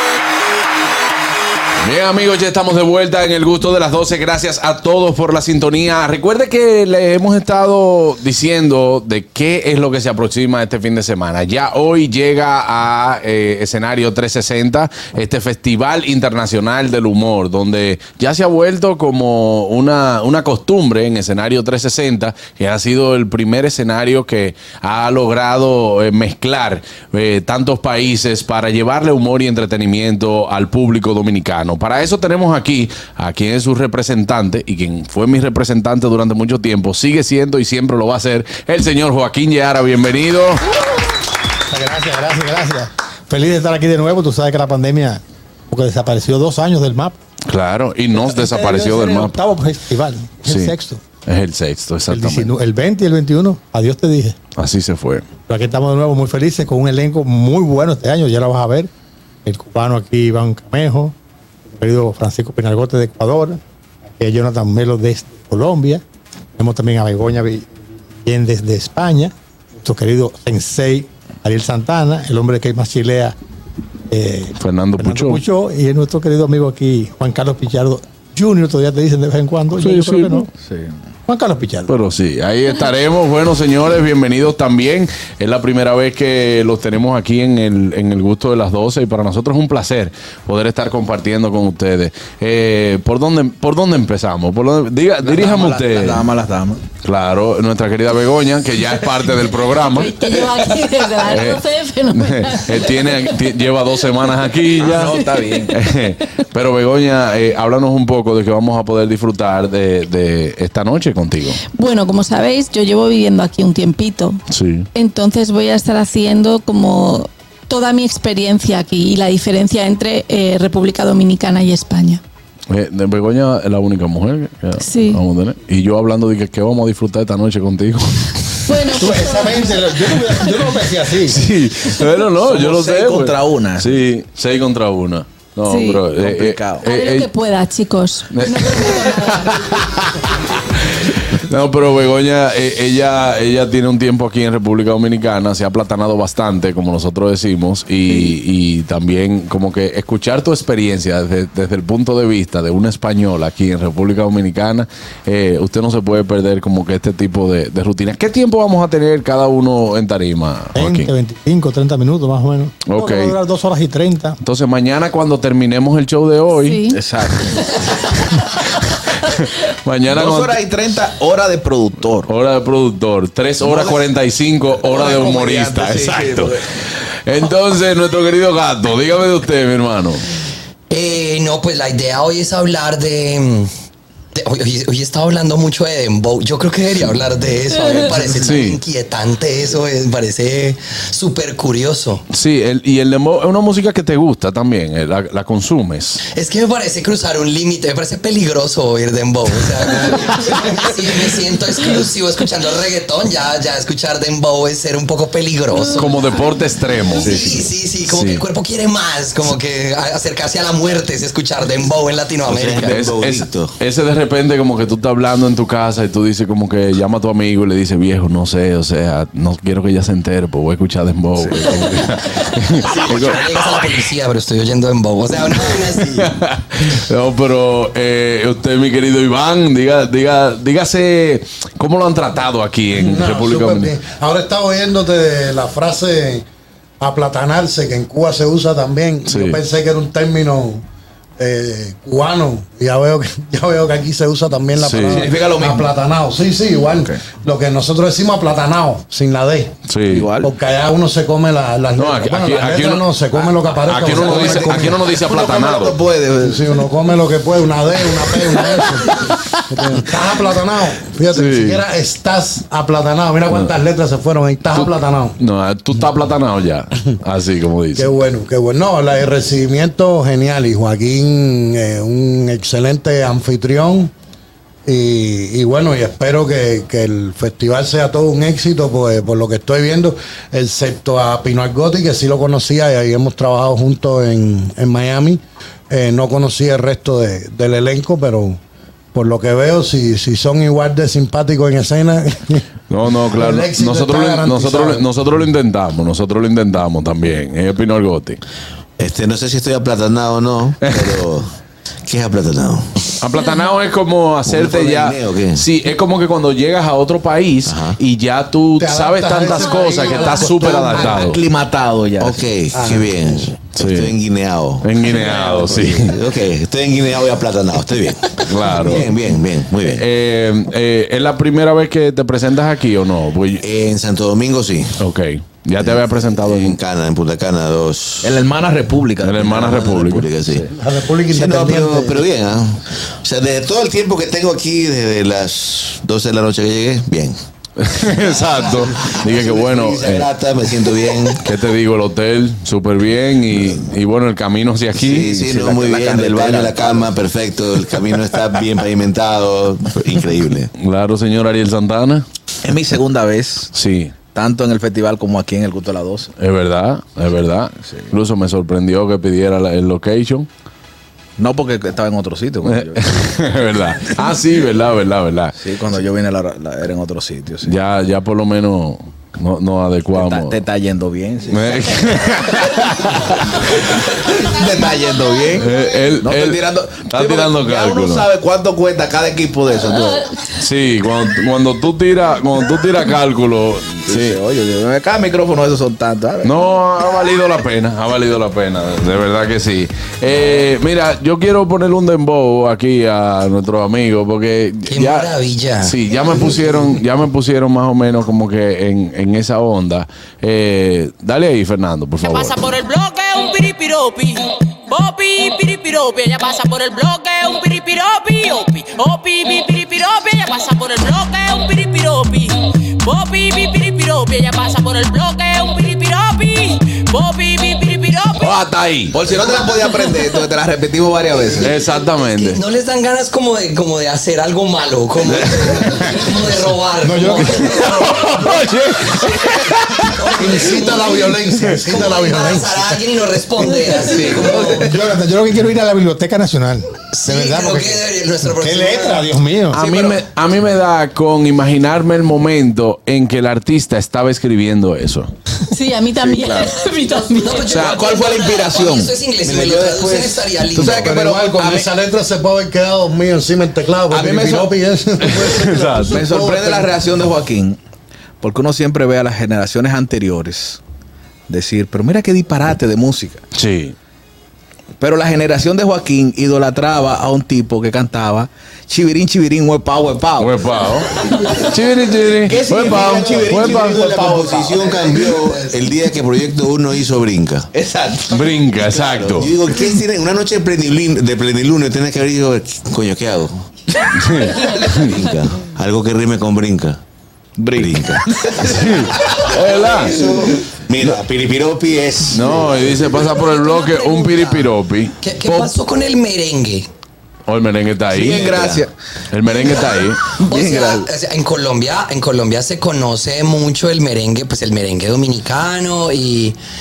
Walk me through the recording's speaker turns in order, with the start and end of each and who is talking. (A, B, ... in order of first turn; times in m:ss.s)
0:01.8-0:40.6 A
0:41.7-0:47.2 B
0:47.5-0:49.4 A
0:48.2-0:51.0 B
0:50.4-0:50.7 A
0:51.2-0:52.5 A
0:52.1-0:54.4 B
0:54.6-0:55.2 A
0:55.5-0:58.9 B
0:59.4-1:01.1 B
1:01.7-1:03.6 B
1:04.2-1:06.0 B
1:06.6-1:07.6 B
1:08.2-1:13.3 B
1:14.1-1:20.5 B
1:14.6-1:15.4 A
1:19.8-1:20.4 A
1:20.6-1:21.0 C
1:21.3-1:21.9 B
1:21.9-1:36.2 A
1:35.2-1:36.8 C
1:37.0-1:40.4 A
1:39.7-1:43.3 D
1:41.2-1:51.6 A
1:44.8-1:45.8 C
1:51.8-1:54.4 D
1:54.5-1:54.9 A
1:54.9-2:02.2 D
2:02.7-2:09.0 A
2:04.8-2:05.2 D
2:08.6-2:10.6 D
2:08.9-2:11.4 B
2:11.3-2:17.3 A
2:12.4-2:14.0 C
2:15.6-2:16.0 D
2:16.1-2:16.8 C
2:16.8-2:19.8 D
2:18.3-2:41.1 A
2:40.7-2:44.4 B
2:42.8-2:43.3 A
2:44.4-2:47.6 A
2:46.5-2:47.0 D
2:46.9-2:47.7 C
2:48.2-2:50.6 A
2:50.1-2:52.3 C
2:52.3-2:56.5 A
2:53.6-2:54.1 C
2:54.7-2:56.6 C
2:57.2-3:00.2 A
3:00.9-3:03.7 E
3:04.3-3:12.2 E
3:08.3-3:08.8 A
3:12.3-3:16.2 A
3:16.3-3:26.1 E
3:25.7-3:26.5 D
3:25.9-3:28.4 A
3:27.2-3:33.0 E
3:32.4-3:33.7 F
3:32.9-3:43.4 A
3:42.8-3:46.3 E
3:46.1-3:53.9 A
3:52.9-3:56.4 G
3:57.0-4:00.8 G
3:59.3-3:59.6 A
4:01.4-4:09.7 G
4:04.8-4:05.3 A
4:05.1-4:05.9 C
4:09.9-4:10.3 A
4:10.1-4:10.5 C
4:10.4-4:15.0 G
4:12.0-4:16.0 A
4:14.0-4:16.6 C
4:16.4-4:25.4 G
4:18.6-4:20.0 A
4:21.3-4:21.8 A
4:24.7-4:28.1 A
4:28.0-4:34.1 G
4:34.8-4:48.6 G
4:49.1-4:52.7 G
4:52.9-4:58.4 A
4:53.2-4:55.0 G
4:59.0-5:01.5 F
5:00.8-5:01.2 A
5:02.0-5:02.9 F
5:03.2-5:11.4 A
5:04.4-5:05.6 F
5:07.6-5:08.0 F
5:08.8-5:11.4 G
5:10.7-5:12.4 C
5:12.2-5:20.0 F
5:12.7-5:13.1 G
5:13.7-5:14.1 A
5:14.8-5:16.2 A
5:15.2-5:16.0 C
5:18.4-5:19.1 A
5:19.9-5:23.6 A
5:23.6-5:25.0 F
5:25.0-5:26.8 A
5:25.8-5:28.4 F
5:28.2-5:30.7 C
5:29.2-5:30.3 A
5:29.6-5:30.7 F
5:30.7-5:32.2 G
5:31.3-5:37.4 F
5:37.8-5:40.3 A
5:38.1-5:41.4 F
5:41.4-5:45.3 A
5:45.0-5:50.7 F
5:45.2-5:47.1 C
5:50.8-5:52.2 A
5:52.6-5:53.7 C
5:53.7-5:54.1 A
5:54.2-5:56.3 C
5:56.4-6:00.5 A
5:57.8-5:58.1 C
6:01.4-6:03.5 C
6:02.6-6:05.6 A
6:05.6-6:07.8 C
6:07.6-6:10.6 A
6:10.1-6:12.2 C
6:11.5-6:14.1 A
6:13.2-6:20.3 C
6:15.6-6:18.3 A
6:20.5-6:24.4 A
6:24.1-6:26.5 C
6:26.4-6:35.3 A
6:34.9-6:35.9 E
6:35.8-6:42.7 A
6:42.2-6:58.5 H
6:58.4-6:59.2 A
6:59.1-7:01.8 C
7:01.6-7:02.6 A
7:02.1-7:08.5 E
7:05.3-7:06.2 A
7:07.0-7:07.8 B
7:07.4-7:10.1 A
7:10.0-7:14.9 E
7:10.3-7:12.9 G
7:13.6-7:15.1 C
7:14.8-7:18.0 B
7:17.1-7:19.2 E
7:18.6-7:19.8 B
7:19.7-7:20.2 C
7:19.7-7:25.3 A
7:25.7-7:27.8 D
7:26.2-7:26.7 A
7:27.3-7:31.1 E
7:27.7-7:31.9 C
7:30.8-7:36.9 G
7:34.1-7:34.7 C
7:35.2-7:36.2 A
7:36.1-7:37.8 C
7:38.4-7:40.8 C
7:41.5-7:43.4 C
7:43.5-7:43.9 A
7:45.0-7:50.5 C
7:50.4-7:54.0 A
7:52.4-7:55.5 C
7:52.5-7:57.7 F
7:57.7-7:58.5 C
7:58.3-7:59.5 A
7:58.8-8:03.6 F
8:04.1-8:05.1 A
8:04.7-8:07.0 F
8:07.6-8:08.7 C
8:07.8-8:13.1 F
8:08.6-8:10.1 A
8:12.3-8:15.7 A
8:13.3-8:16.9 E
8:17.5-8:18.5 A
8:18.1-8:18.8 F
8:18.1-8:18.9 C
8:19.3-8:20.2 A
8:20.4-8:21.1 C
8:20.4-8:26.6 E